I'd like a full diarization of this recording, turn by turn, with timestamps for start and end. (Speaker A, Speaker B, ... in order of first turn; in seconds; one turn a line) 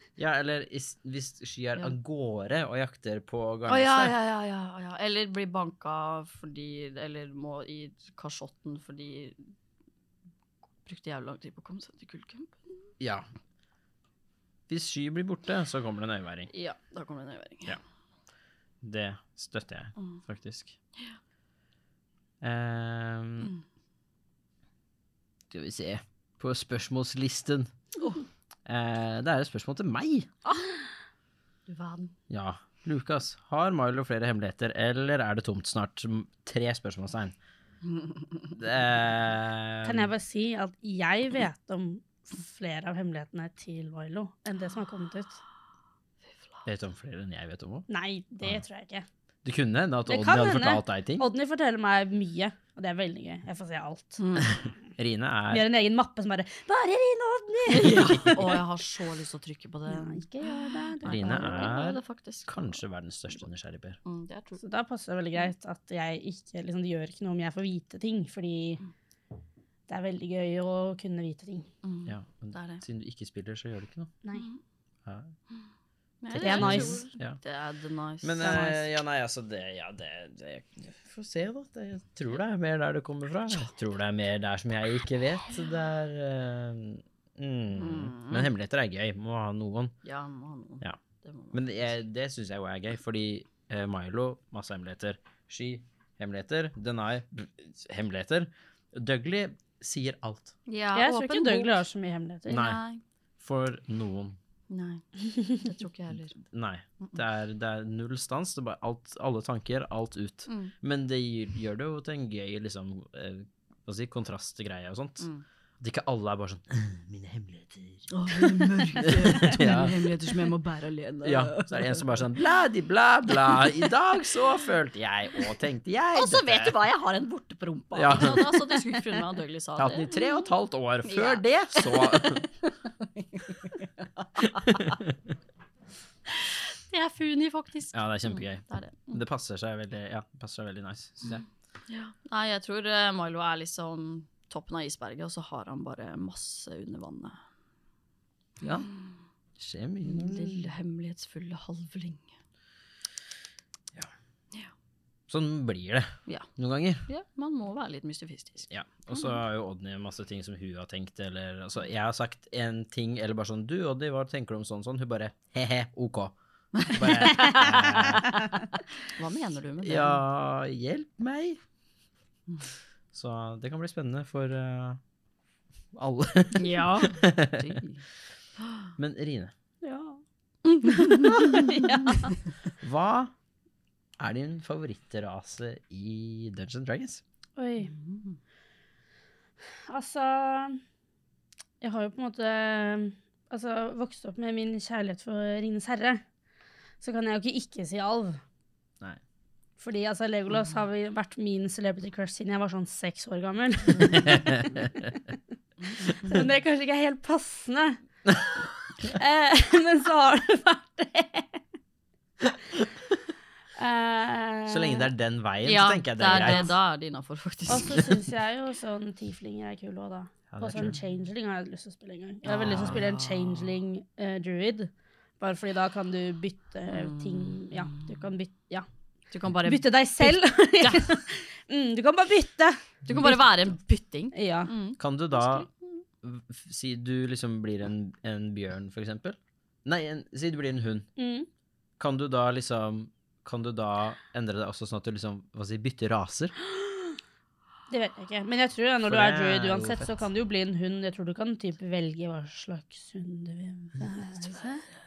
Speaker A: 0.2-4.2
Speaker B: 3.7-9.5
Speaker B: 10.8-12.9
Speaker A: 13.0-13.3
Speaker A: 14.7-16.5
Speaker B: 16.5-17.8
Speaker A: 18.8-20.8
Speaker A: 22.4-23.6
Speaker A: 25.5-27.7
Speaker A: 28.7-30.3
Speaker B: 31.7-32.1
Speaker A: 32.3-37.4
Speaker A: 38.5-40.1
Speaker C: 39.8-45.4
Speaker A: 46.7-47.9
Speaker C: 47.9-49.1
Speaker A: 49.5-51.3
Speaker C: 50.1-54.2
Speaker B: 54.2-54.6
Speaker A: 55.0-55.7
Speaker C: 55.5-58.6
Speaker B: 57.7-62.8
Speaker C: 59.9-61.7
Speaker A: 61.0-64.0
Speaker B: 64.0-64.6
Speaker C: 64.6-68.8
Speaker C: 69.9-71.7
Speaker B: 71.8-72.8
Speaker A: 72.1-74.1
Speaker B: 74.3-74.6
Speaker A: 75.1-75.3
Speaker B: 76.2-78.5
Speaker C: 76.3-77.1
Speaker A: 76.4-77.4
Speaker A: 78.2-89.9
Speaker C: 78.4-78.8
Speaker B: 87.8-88.5
Speaker B: 90.0-91.7
Speaker A: 91.5-100.5
Speaker B: 100.7-101.9
Speaker C: 100.9-102.7
Speaker B: 102.5-103.0
Speaker A: 102.5-102.8
Speaker A: 103.4-104.4
Speaker B: 104.7-106.4
Speaker A: 106.5-115.3
Speaker B: 110.5-110.7
Speaker A: 115.8-120.0
Speaker B: 118.1-122.3
Speaker A: 121.2-126.7
Speaker B: 123.5-123.8
Speaker B: 126.1-130.3
Speaker A: 127.9-128.8
Speaker A: 129.8-132.5
Speaker B: 131.1-135.0
Speaker A: 134.5-135.2
Speaker B: 136.3-139.2
Speaker A: 137.9-141.4
Speaker B: 141.9-147.4
Speaker A: 148.6-148.9
Speaker A: 149.6-150.4
Speaker B: 150.1-152.3
Speaker A: 155.3-157.0
Speaker B: 157.1-159.3
Speaker A: 158.7-168.4
Speaker B: 166.8-170.2
Speaker A: 169.8-171.6
Speaker A: 173.1-175.0
Speaker A: 175.9-177.8
Speaker B: 176.6-178.0
Speaker B: 178.6-178.9
Speaker A: 179.0-179.5
Speaker C: 179.8-180.2
Speaker B: 180.7-181.8
Speaker C: 180.8-182.3
Speaker A: 182.8-183.3
Speaker A: 184.2-187.2
Speaker C: 187.6-187.9
Speaker B: 187.8-188.4
Speaker C: 189.9-190.8
Speaker C: 191.8-196.2
Speaker C: 197.0-198.4
Speaker C: 199.8-205.1
Speaker A: 204.2-204.9
Speaker C: 206.2-208.0
Speaker C: 209.0-211.6
Speaker C: 213.8-215.1
Speaker A: 214.7-216.7
Speaker B: 215.7-218.1
Speaker C: 216.3-216.7
Speaker C: 217.7-228.9
Speaker A: 220.5-221.0
Speaker B: 222.4-223.7
Speaker B: 226.9-228.2
Speaker B: 229.3-231.1
Speaker C: 229.6-233.4
Speaker B: 233.1-235.7
Speaker C: 234.3-234.7
Speaker A: 235.0-235.7
Speaker A: 236.2-241.1
Speaker C: 241.2-241.5
Speaker A: 242.0-246.5
Speaker C: 246.8-247.2
Speaker C: 247.9-254.8
Speaker A: 249.1-250.1